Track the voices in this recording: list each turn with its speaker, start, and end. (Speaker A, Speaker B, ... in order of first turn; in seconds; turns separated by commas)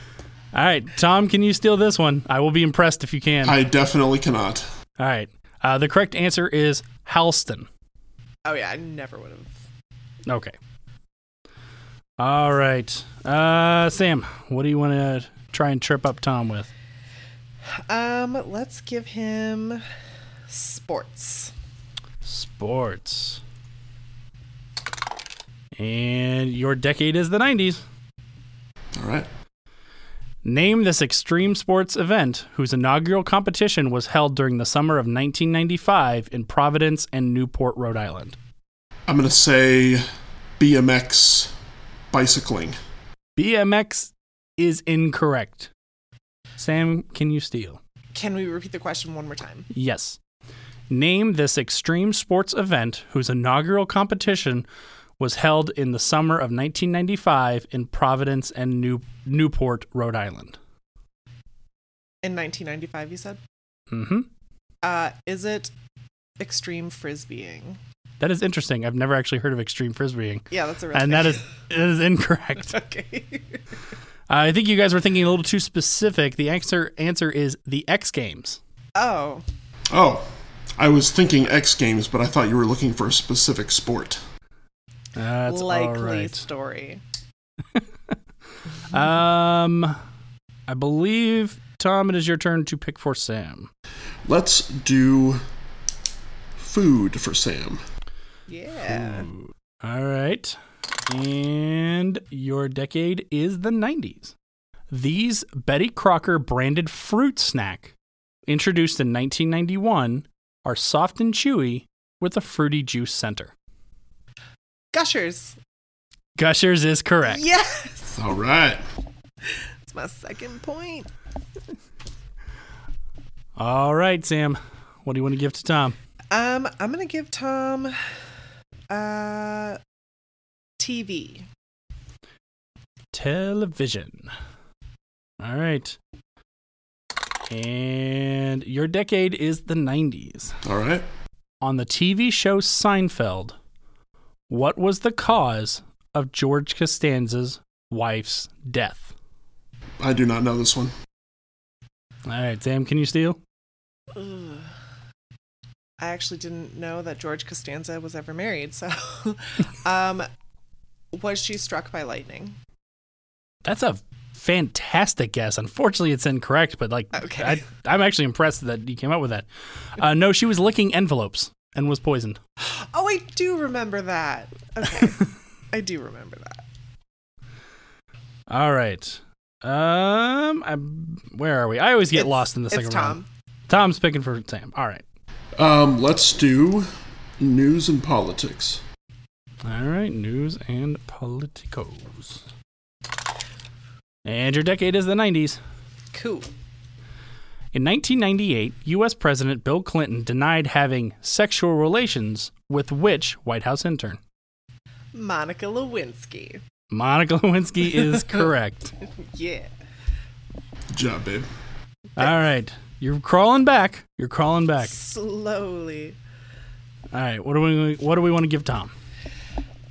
Speaker A: 0.5-3.6, Speaker B: 3.4-4.7, Speaker A: 5.0-7.7, Speaker C: 8.4-9.5, Speaker A: 10.3-10.6, Speaker A: 12.2-16.7, Speaker C: 17.9-19.8, Speaker C: 20.5-21.5, Speaker A: 22.2-23.4, Speaker A: 25.8-27.8, Speaker B: 28.9-29.3, Speaker A: 30.4-38.4, Speaker B: 39.1-40.0, Speaker B: 40.6-41.5, Speaker B: 42.1-42.8, Speaker A: 43.4-45.7, Speaker A: 46.6-47.8, Speaker C: 48.1-49.7, Speaker A: 49.7-50.2, Speaker A: 50.9-54.7, Speaker A: 55.2-60.6, Speaker C: 62.2-63.4, Speaker A: 63.9-64.3, Speaker C: 64.8-65.7, Speaker C: 66.4-67.8, Speaker A: 68.2-72.8, Speaker C: 70.5-71.5, Speaker C: 72.7-73.6, Speaker A: 74.3-78.6, Speaker C: 79.0-79.4, Speaker B: 79.9-84.2, Speaker A: 85.1-86.4, Speaker C: 85.5-87.0, Speaker A: 88.9-90.0, Speaker A: 90.7-93.7, Speaker B: 94.2-95.4, Speaker B: 96.6-97.8, Speaker C: 98.5-99.3, Speaker A: 98.9-104.3, Speaker A: 104.9-107.9, Speaker A: 108.5-113.5, Speaker C: 114.9-115.6, Speaker A: 116.4-117.4, Speaker C: 117.3-118.2, Speaker B: 118.2-118.8, Speaker C: 119.9-121.1, Speaker A: 123.6-126.0, Speaker C: 126.3-128.0, Speaker C: 128.9-129.8, Speaker C: 130.8-131.5, Speaker A: 133.1-134.3, Speaker A: 135.4-136.0, Speaker A: 137.5-140.6, Speaker B: 140.6-141.0, Speaker A: 141.6-143.6, Speaker A: 144.5-149.1, Speaker B: 150.0-150.9, Speaker A: 152.2-153.4, Speaker C: 154.1-154.7, Speaker C: 156.0-160.3, Speaker C: 161.1-162.6, Speaker A: 163.7-172.4, Speaker C: 167.1-167.6, Speaker C: 172.7-176.6, Speaker A: 178.5-185.0, Speaker C: 182.2-183.2, Speaker B: 185.6-188.8, Speaker A: 189.6-192.4, Speaker A: 194.2-195.6, Speaker C: 196.1-196.5, Speaker A: 197.7-204.2, Speaker C: 205.1-206.6, Speaker A: 206.9-208.9, Speaker C: 209.2-209.7, Speaker B: 210.9-211.5, Speaker A: 212.2-214.9, Speaker C: 214.8-216.2, Speaker A: 217.1-218.9